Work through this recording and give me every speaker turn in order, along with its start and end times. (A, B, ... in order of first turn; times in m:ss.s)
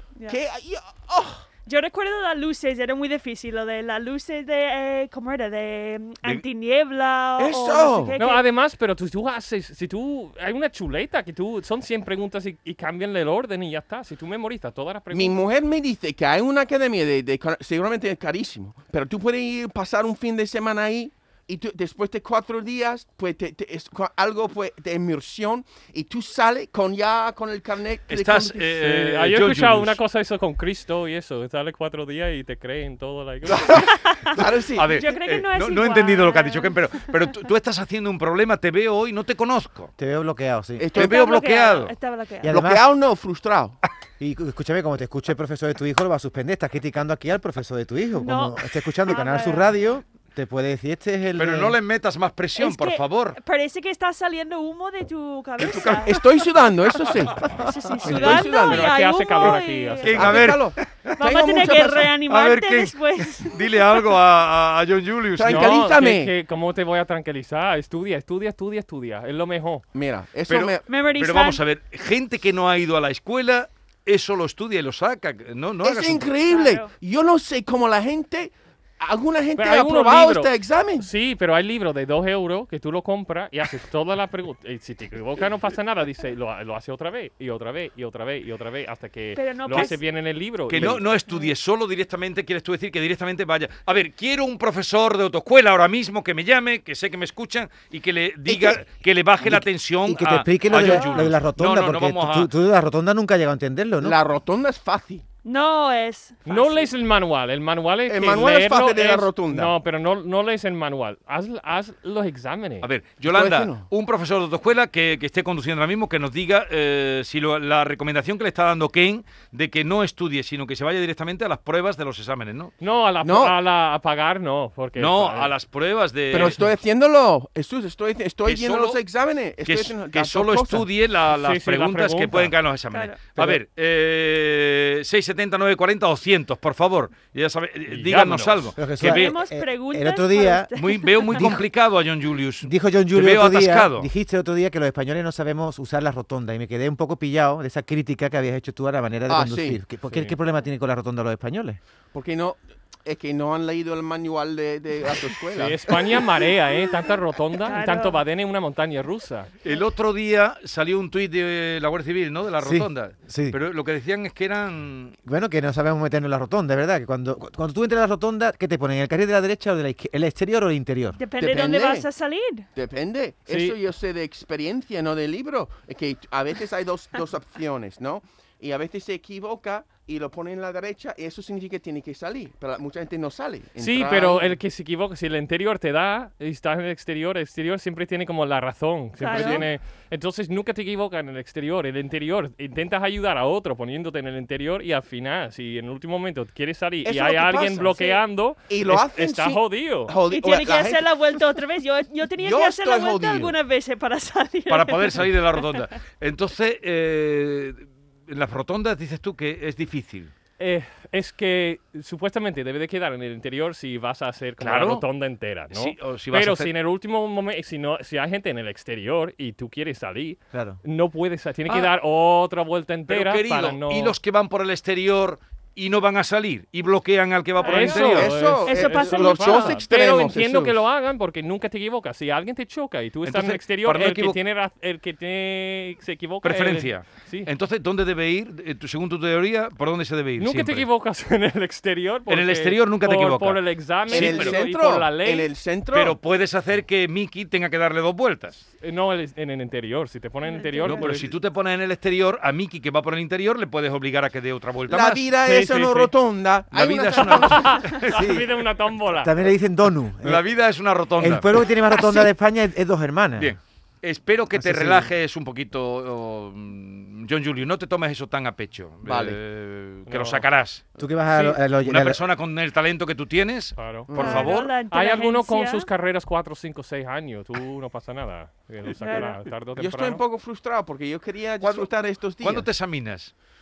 0:00.3-0:01.5 A
0:01.6-0:08.4 B
0:07.4-0:08.2 A
0:08.2-0:15.4 C
0:15.1-0:28.7 A
0:28.1-0:30.0 D
0:28.8-0:33.8 C
0:33.5-0:35.0 A
0:33.8-0:34.4 B
0:34.4-0:39.9 D
0:34.9-0:37.1 B
0:40.0-0:40.9 E
0:40.8-0:41.2 A
0:40.9-0:41.9 D
0:40.9-0:42.6 B
0:42.4-0:42.8 E
0:42.5-0:43.8 A
0:44.2-0:51.8 E
0:48.2-0:49.7 B
0:51.4-0:53.4 D
0:52.6-0:56.2 B
0:55.6-0:56.1 D
0:56.0-0:58.9 A
0:57.5-1:00.6 B
0:58.1-1:00.4 C
1:00.0-1:01.6 D
1:00.1-1:02.1 A
1:01.2-1:04.0 B
1:02.2-1:05.8 D
1:05.4-1:06.3 A
1:05.4-1:09.8 C
1:09.9-1:10.8 A
1:10.5-1:16.3 D
1:10.9-1:11.6 B
1:15.8-1:21.1 A
1:16.5-1:16.9 B
1:19.6-1:31.0 C
1:29.3-1:30.0 B
1:30.7-1:42.5 D
1:38.5-1:38.8 A
1:39.4-1:44.2 E
1:40.8-1:41.2 B
1:44.0-1:45.2 A
1:45.4-1:46.9 B
1:46.4-1:52.9 C
1:48.1-1:49.7 A
1:52.8-2:02.7 D
1:53.2-1:53.9 A
2:02.8-2:05.5 C
2:03.2-2:03.6 A
2:05.0-2:06.6 D
2:06.3-2:10.8 A
2:08.4-2:09.0 D
2:09.6-2:19.3 D
2:11.3-2:12.5 C
2:12.9-2:13.2 B
2:17.9-2:18.7 C
2:18.8-2:20.7 E
2:19.0-2:21.5 B
2:20.8-2:24.1 D
2:21.3-2:21.6 E
2:22.6-2:31.8 E
2:29.3-2:29.8 A
2:30.1-2:30.4 C
2:32.1-2:36.2 A
2:35.5-2:39.5 C
2:37.6-2:38.2 B
2:39.6-2:45.2 D
2:42.6-2:43.6 E
2:45.2-2:51.2 E
2:51.2-2:52.7 B
2:51.4-2:52.1 A
2:52.7-3:04.6 A
2:53.5-2:53.8 C
3:03.8-3:20.1 C
3:09.2-3:09.7 B
3:09.3-3:09.6 A
3:17.0-3:21.0 A
3:20.3-3:25.8 B
3:22.4-3:23.6 A
3:24.7-3:30.3 D
3:30.6-3:44.1 C
3:34.6-3:35.0 D
3:35.7-3:36.7 D
3:40.5-3:40.8 E
3:43.1-3:48.3 D
3:47.6-3:48.1 B
3:47.6-3:57.5 C
3:47.7-3:50.8 A
3:48.6-3:49.8 B
3:53.2-3:54.4 D
3:56.4-4:00.8 D
4:00.4-4:05.5 C
4:02.3-4:04.6 D
4:04.1-4:06.2 A
4:05.9-4:08.6 D
4:08.8-4:11.3 C
4:10.4-4:11.1 B
4:10.8-4:15.3 D
4:14.9-4:17.8 A
4:15.4-4:16.1 C
4:16.7-4:18.3 D
4:17.2-4:19.3 C
4:18.1-4:18.5 E
4:19.1-4:20.5 E
4:20.2-4:21.5 D
4:21.2-4:23.6 E
4:23.4-4:30.8 D
4:24.5-4:25.1 E
4:29.0-4:29.4 A
4:30.1-4:30.4 C
4:31.0-4:32.2 E
4:31.8-4:34.7 D
4:33.8-4:34.1 C
4:34.1-4:34.6 A
4:34.2-4:35.9 B
4:34.9-4:40.2 C
4:39.0-4:39.4 B
4:39.8-4:42.7 A
4:41.6-4:43.3 D